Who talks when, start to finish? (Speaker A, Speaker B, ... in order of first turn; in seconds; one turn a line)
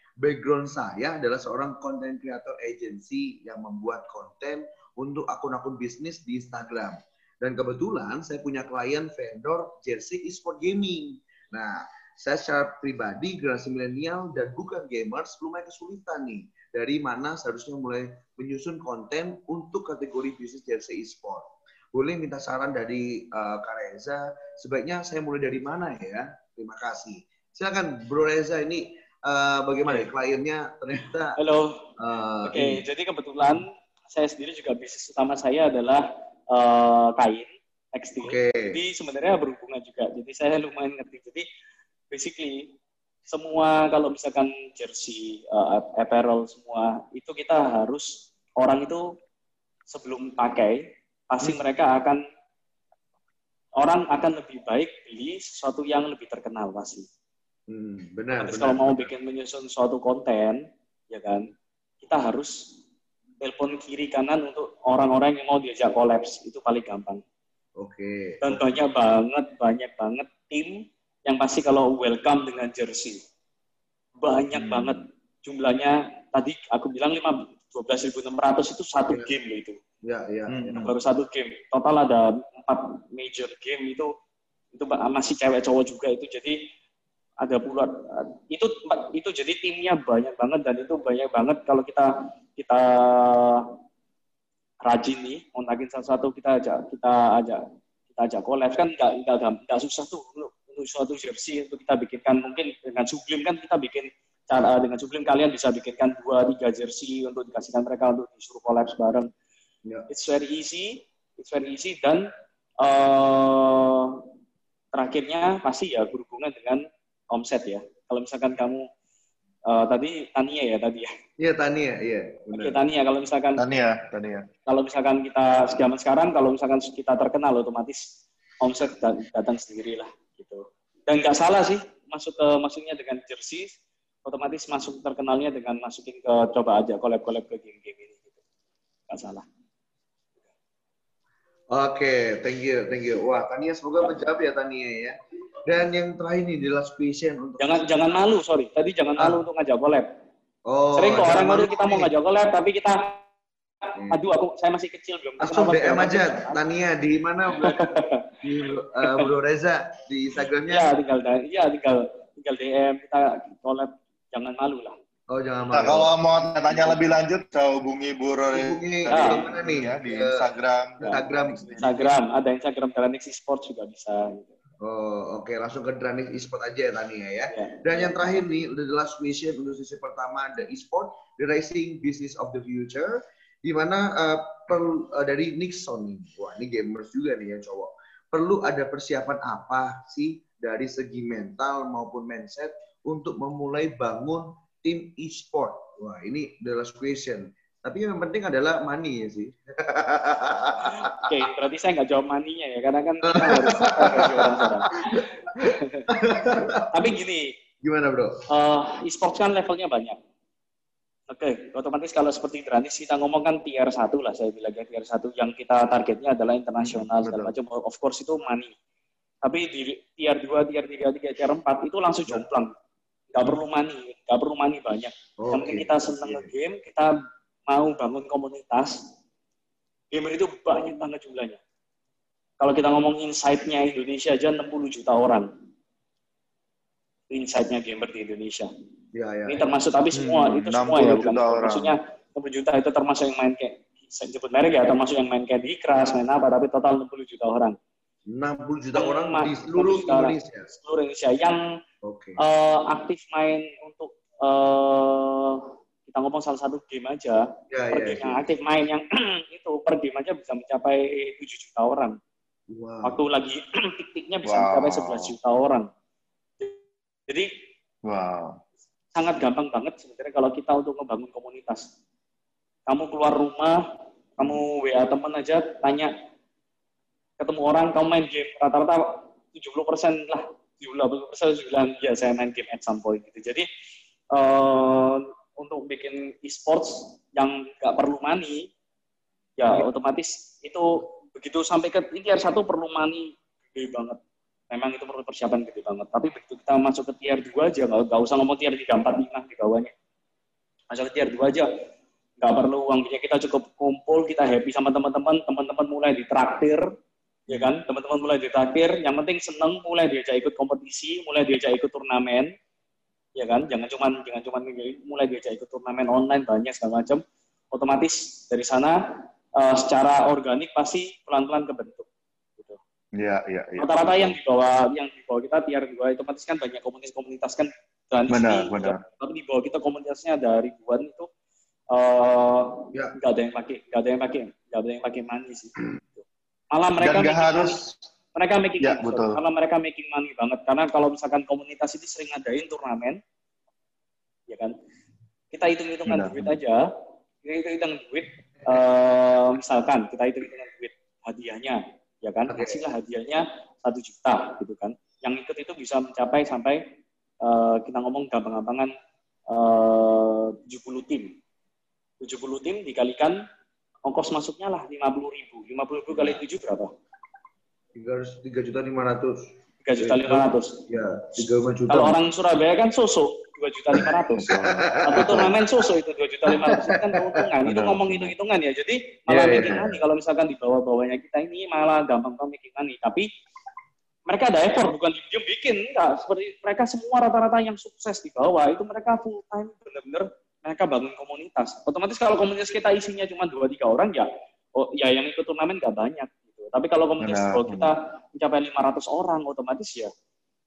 Speaker A: 0.2-31.4
Speaker B: 31.4-31.9
Speaker A: 32.0-32.8
Speaker B: 32.4-41.5
Speaker A: 38.2-38.8
Speaker B: 42.1-42.7
Speaker B: 43.3-49.2
Speaker B: 49.9-52.2
Speaker B: 53.8-57.1
Speaker A: 57.7-59.1
Speaker B: 58.4-61.5
Speaker B: 62.0-62.8
Speaker B: 63.4-67.2
Speaker A: 67.8-68.7
Speaker B: 68.4-73.2
Speaker B: 74.2-79.8
Speaker C: 74.5-75.0
Speaker A: 80.0-80.9
Speaker C: 80.5-80.9
Speaker B: 80.8-84.1
Speaker B: 84.7-86.6
Speaker B: 87.4-93.7
Speaker B: 94.9-109.3
Speaker B: 110.1-112.3
Speaker B: 112.8-114.2
Speaker B: 114.9-118.9
Speaker B: 119.7-121.1
Speaker A: 121.4-122.8
Speaker B: 122.5-123.6
Speaker C: 123.6-124.5
Speaker B: 124.7-138.4
Speaker B: 139.1-139.5
Speaker A: 141.7-147.7
Speaker B: 147.6-150.1
Speaker A: 150.7-152.1
Speaker B: 151.0-153.2
Speaker B: 154.1-156.6
Speaker A: 155.4-157.8
Speaker B: 157.5-158.3
Speaker A: 158.4-160.9
Speaker B: 159.0-159.3
Speaker B: 160.7-165.0
Speaker A: 165.3-166.1
Speaker C: 165.7-172.0
Speaker A: 168.5-170.4
Speaker B: 169.1-169.4
Speaker A: 171.0-172.1
Speaker B: 171.8-174.5
Speaker A: 174.8-201.3
Speaker B: 177.5-178.4
Speaker B: 200.8-206.1
Speaker A: 203.3-206.9
Speaker B: 206.9-207.6
Speaker A: 207.8-208.4
Speaker B: 208.5-210.2
Speaker B: 211.3-218.8
Speaker C: 216.8-217.5
Speaker B: 219.4-222.7
Speaker B: 223.3-227.1
Speaker A: 225.4-226.5
Speaker B: 227.7-229.1
Speaker B: 230.1-231.6
Speaker B: 232.6-235.5
Speaker B: 237.3-238.7
Speaker A: 239.1-239.7
Speaker B: 239.5-247.8
Speaker C: 240.1-241.9
Speaker A: 248.3-250.7
Speaker B: 248.9-251.6
Speaker A: 252.0-252.4
Speaker B: 252.4-262.2
Speaker A: 257.7-258.6
Speaker A: 262.7-263.2
Speaker B: 263.0-265.9
Speaker C: 264.4-265.3
Speaker B: 266.6-267.5
Speaker C: 268.1-268.6
Speaker B: 269.1-271.9
Speaker B: 272.9-273.8
Speaker B: 274.4-276.1
Speaker B: 277.4-283.7
Speaker B: 284.3-288.7
Speaker B: 289.6-294.2
Speaker B: 294.7-299.9
Speaker B: 300.9-301.7
Speaker B: 302.4-306.9
Speaker B: 307.5-312.5
Speaker B: 313.4-322.1
Speaker C: 323.2-324.4
Speaker B: 323.8-331.3
Speaker C: 328.3-329.0
Speaker B: 331.9-337.8
Speaker C: 337.0-337.9
Speaker B: 338.4-343.2
Speaker C: 338.8-339.4
Speaker B: 344.5-344.8
Speaker B: 345.5-346.9
Speaker C: 346.1-346.5
Speaker B: 347.4-356.8
Speaker A: 352.5-352.8
Speaker B: 357.4-358.9
Speaker B: 359.5-361.4
Speaker B: 362.2-363.4
Speaker B: 364.1-366.9
Speaker A: 367.9-372.2
Speaker B: 369.8-370.8
Speaker B: 371.9-374.5
Speaker A: 373.9-375.6
Speaker C: 374.4-375.5
Speaker B: 375.0-383.3
Speaker A: 376.5-377.4
Speaker C: 377.7-378.3
Speaker A: 379.3-380.0
Speaker C: 379.6-379.9
Speaker B: 384.3-400.1
Speaker C: 397.2-397.9